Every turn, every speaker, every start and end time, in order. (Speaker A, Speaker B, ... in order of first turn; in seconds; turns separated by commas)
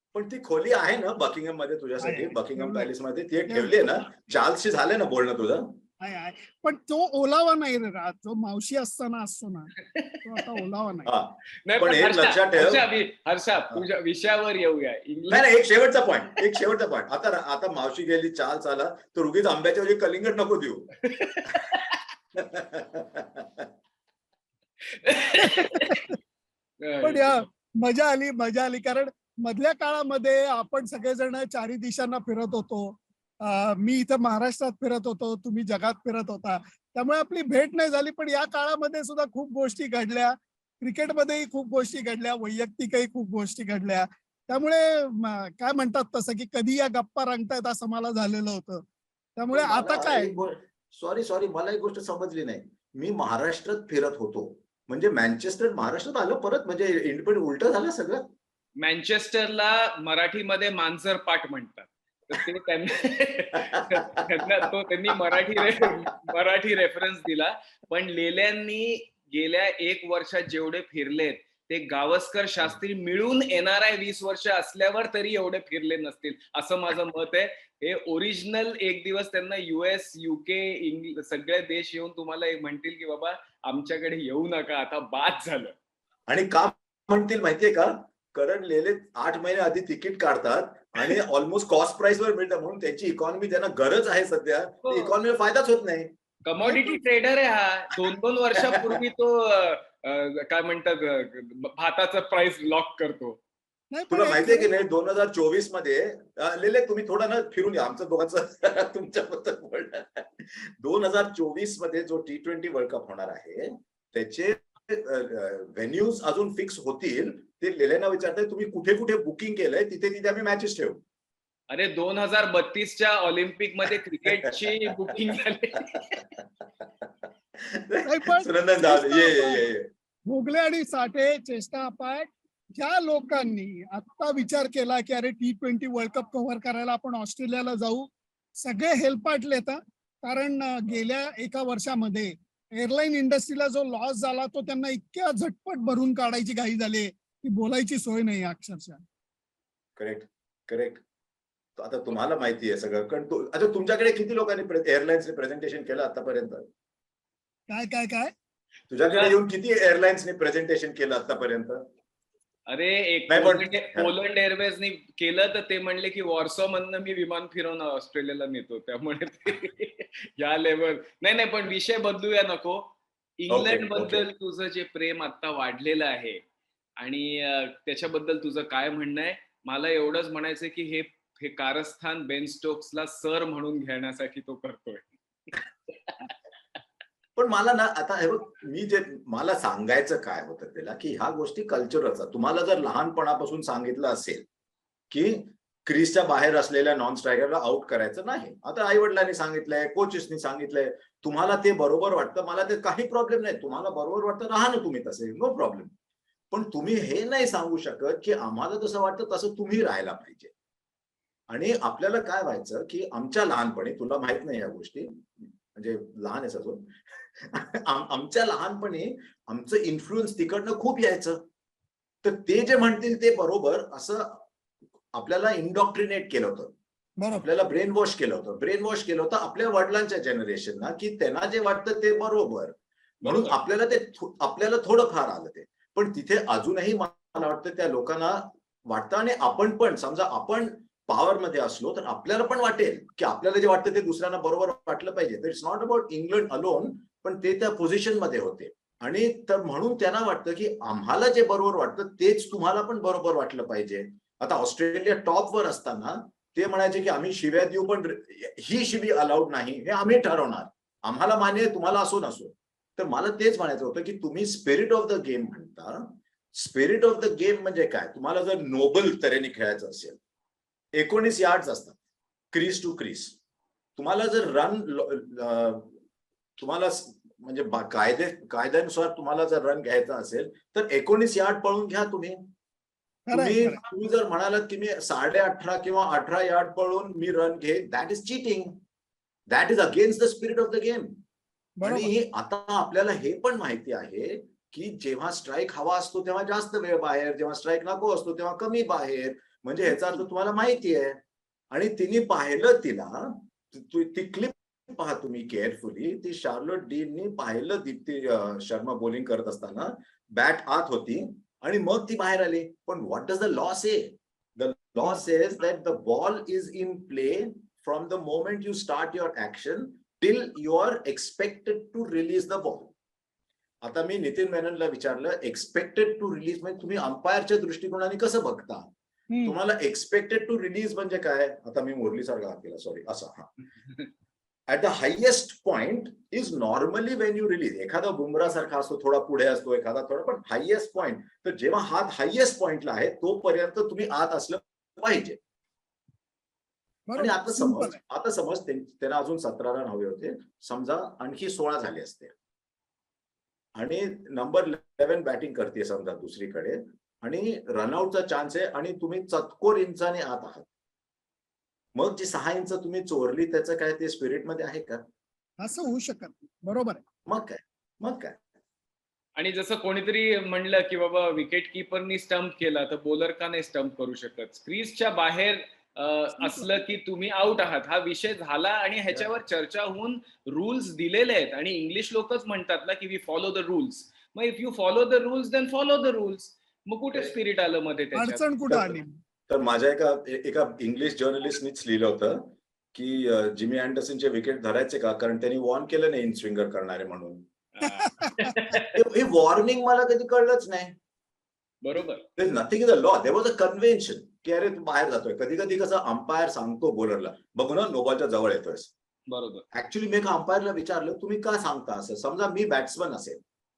Speaker A: 0.1-5.8, Speaker B: 2.0-2.9, Speaker B: 3.5-3.9, Speaker B: 6.0-9.7, Speaker C: 9.9-10.2, Speaker B: 10.2-11.1, Speaker A: 11.1-12.8, Speaker C: 11.7-15.5, Speaker A: 15.3-20.9, Speaker C: 21.0-22.0, Speaker A: 22.3-23.7, Speaker C: 24.9-26.0, Speaker B: 25.4-26.1, Speaker C: 26.8-27.4, Speaker B: 27.0-48.8, Speaker B: 49.4-50.3, Speaker A: 49.5-58.3, Speaker C: 58.8-85.8, Speaker A: 63.7-66.1, Speaker A: 86.3-96.1, Speaker C: 94.8-95.1, Speaker C: 96.5-103.4, Speaker B: 96.6-97.0, Speaker A: 98.6-99.0, Speaker B: 103.9-104.7, Speaker A: 104.1-121.0, Speaker C: 121.7-126.2, Speaker A: 123.9-126.0, Speaker A: 126.8-129.9, Speaker B: 128.1-129.6, Speaker B: 130.3-149.0, Speaker A: 150.0-151.0, Speaker A: 151.8-156.7, Speaker B: 157.7-158.3, Speaker A: 158.9-161.8, Speaker C: 159.1-159.3, Speaker C: 162.7-176.4, Speaker A: 163.3-164.1, Speaker A: 173.5-174.3, Speaker C: 177.0-186.3, Speaker A: 187.4-194.5, Speaker A: 195.1-205.9, Speaker A: 206.5-210.5, Speaker A: 211.5-221.4, Speaker A: 222.2-224.4, Speaker A: 225.1-226.7, Speaker B: 227.2-227.5, Speaker A: 227.3-270.2, Speaker C: 233.2-233.6, Speaker A: 270.9-272.0, Speaker A: 272.5-273.4, Speaker A: 274.0-275.9, Speaker A: 276.6-282.5, Speaker B: 283.3-283.8, Speaker A: 283.3-288.8, Speaker A: 289.5-291.2, Speaker B: 291.8-292.1, Speaker A: 291.8-301.2, Speaker A: 301.7-322.9, Speaker A: 323.8-328.9, Speaker B: 329.3-329.6, Speaker A: 329.4-333.5, Speaker A: 334.7-345.4, Speaker B: 347.1-348.0, Speaker A: 347.1-352.3, Speaker A: 353.8-360.7, Speaker A: 361.9-365.0, Speaker B: 365.6-367.0, Speaker A: 367.3-368.4, Speaker C: 369.4-388.5, Speaker B: 376.4-376.7, Speaker B: 388.1-389.1, Speaker A: 388.7-397.5, Speaker C: 397.8-399.0, Speaker B: 397.8-398.6, Speaker A: 398.9-401.0, Speaker C: 401.8-402.2, Speaker A: 402.4-408.9, Speaker C: 409.3-409.6, Speaker A: 409.7-413.4